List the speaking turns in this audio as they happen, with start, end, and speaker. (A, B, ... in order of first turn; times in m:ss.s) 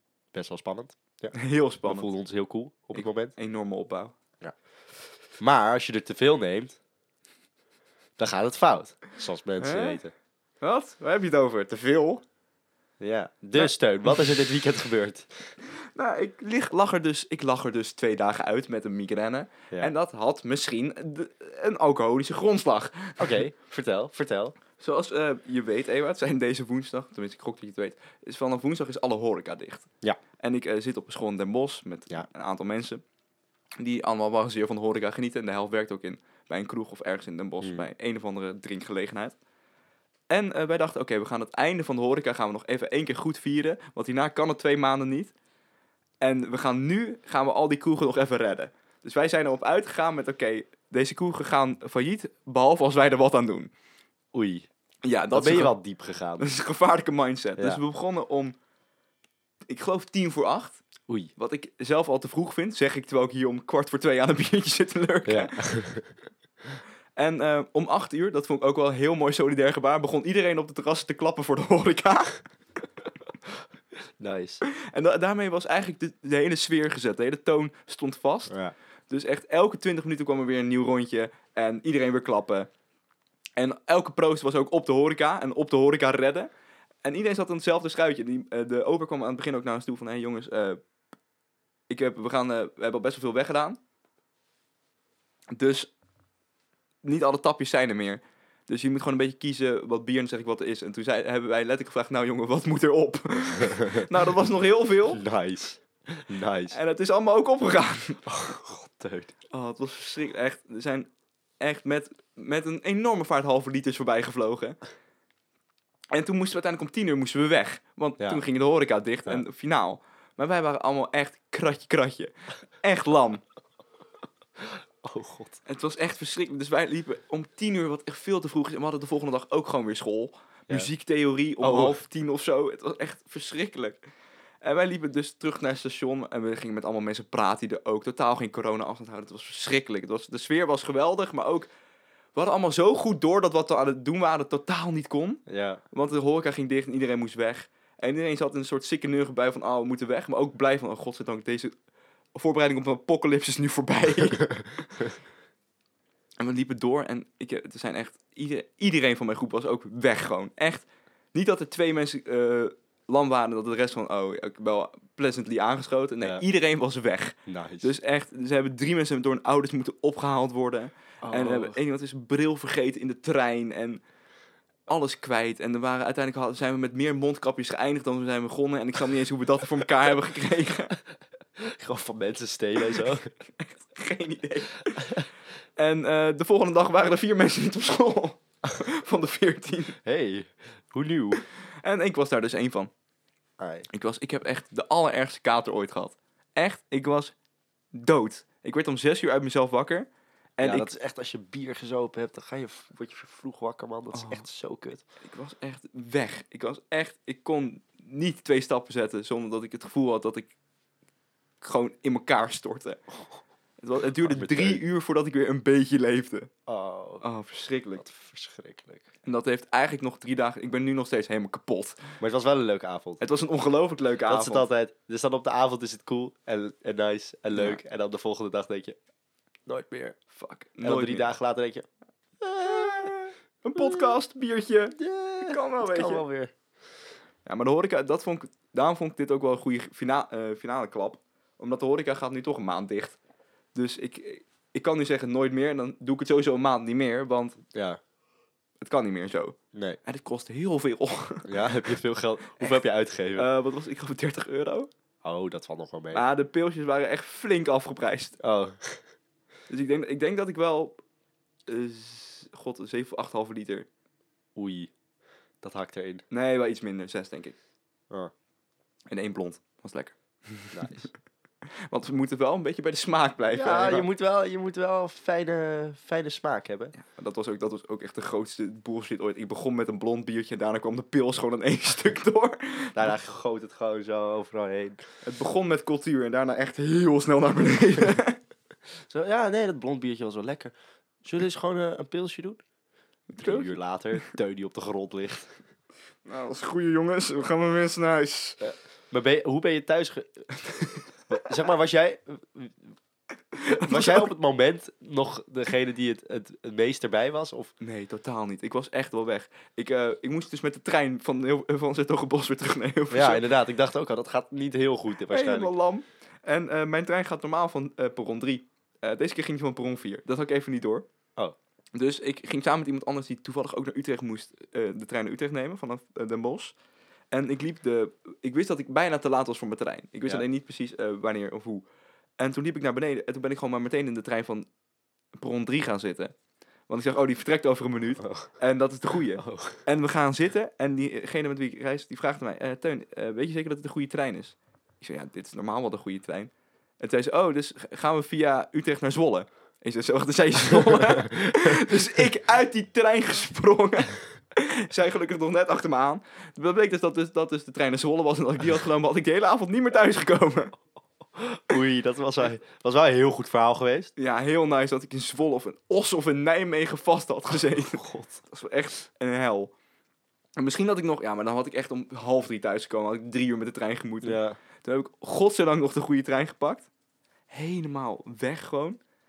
0:00.3-0:03.3 A
0:01.4-0:02.1 B
0:03.0-0:04.1 B
0:05.4-0:06.8 A
0:08.2-0:10.1 A
0:09.6-0:10.0 B
0:10.6-0:12.2 B
0:13.0-0:15.5 A
0:15.8-0:23.4 B
0:23.2-0:24.5 A
0:24.8-0:33.0 B
0:33.8-0:39.4 B
0:40.3-0:45.3 B
0:46.2-0:53.7 B
0:54.3-0:54.7 A
0:55.0-0:55.8 B
0:55.3-0:56.5 A
0:56.4-0:58.6 B
0:59.6-1:00.8 B
1:01.4-1:05.6 B
1:05.2-1:06.2 A
1:07.2-1:12.4 B
1:14.2-1:14.6 A
1:14.7-1:18.5 B
1:18.5-1:18.7 A
1:19.1-1:22.7 B
1:23.6-1:26.5 B
1:27.0-1:30.8 B
1:31.9-1:33.8 B
1:35.5-1:35.9 B
1:37.0-1:45.2 B
1:43.7-1:44.0 A
1:45.1-1:46.8 A
1:46.7-1:48.2 B
1:48.2-1:49.3 A
1:49.5-1:54.8 B
1:56.1-2:03.4 B
2:05.0-2:05.6 A
2:05.6-2:14.0 B
2:11.6-2:12.0 A
2:14.6-2:21.7 B
2:22.4-2:31.7 B
2:25.5-2:25.8 A
2:32.3-2:34.6 B
2:36.4-2:54.0 B
2:47.5-2:47.9 A
2:51.2-2:51.8 A
2:54.9-3:01.0 B
3:01.6-3:03.3 A
3:03.6-3:05.0 B
3:05.8-3:10.0 B
3:10.0-3:11.4 A
3:11.6-3:12.9 B
3:13.6-3:13.9 A
3:13.9-3:17.3 B
3:17.9-3:20.9 B
3:20.6-3:25.0 A
3:24.1-3:24.4 B
3:25.2-3:30.5 B
3:31.6-3:33.0 B
3:33.8-3:36.5 B
3:34.2-3:34.8 A
3:36.7-3:37.2 A
3:37.2-3:38.0 B
3:38.0-3:39.0 A
3:39.2-3:42.0 B
3:42.2-3:43.2 A
3:43.2-3:44.7 B
3:44.3-3:49.0 A
3:47.5-3:47.8 B
3:49.7-3:50.2 A
3:50.3-3:51.2 B
3:50.8-3:51.8 A
3:52.4-3:53.1 A
3:52.6-3:56.2 B
3:53.8-3:54.1 A
3:55.0-3:56.5 A
3:57.4-4:03.2 B
4:03.7-4:07.6 B
4:07.7-4:08.0 A
4:08.8-4:11.9 B
4:11.4-4:13.5 A
4:13.3-4:14.9 B
4:15.2-4:16.2 A
4:16.1-4:18.4 B
4:18.4-4:19.0 A
4:19.7-4:21.0 B
4:21.7-4:23.9 B
4:24.6-4:24.9 A
4:25.6-4:26.2 A
4:26.3-4:27.6 B
4:29.1-4:31.0 B
4:30.7-4:31.1 A
4:31.7-4:34.1 B
4:33.5-4:36.9 A
4:37.0-4:43.1 B
4:43.0-4:45.0 A
4:45.2-4:48.4 B
4:49.1-4:52.6 A
4:53.3-4:53.7 B
4:53.3-4:55.5 A
4:56.2-4:58.6 B
4:58.6-5:03.0 A
5:03.5-5:04.3 B
5:03.7-5:07.7 A
5:07.8-5:13.4 B
5:13.1-5:15.7 A
5:15.3-5:21.0 B
5:21.9-5:26.8 B
5:27.3-5:31.8 B
5:32.4-5:34.7 B
5:35.4-5:36.3 B
5:36.9-6:00.7 B
5:38.2-5:38.5 A
5:39.4-5:39.8 A
6:01.4-6:04.1 A
6:04.2-6:09.7 B
6:07.8-6:08.4 A
6:10.6-6:16.9 B
6:14.2-6:14.6 A
6:17.5-6:19.0 B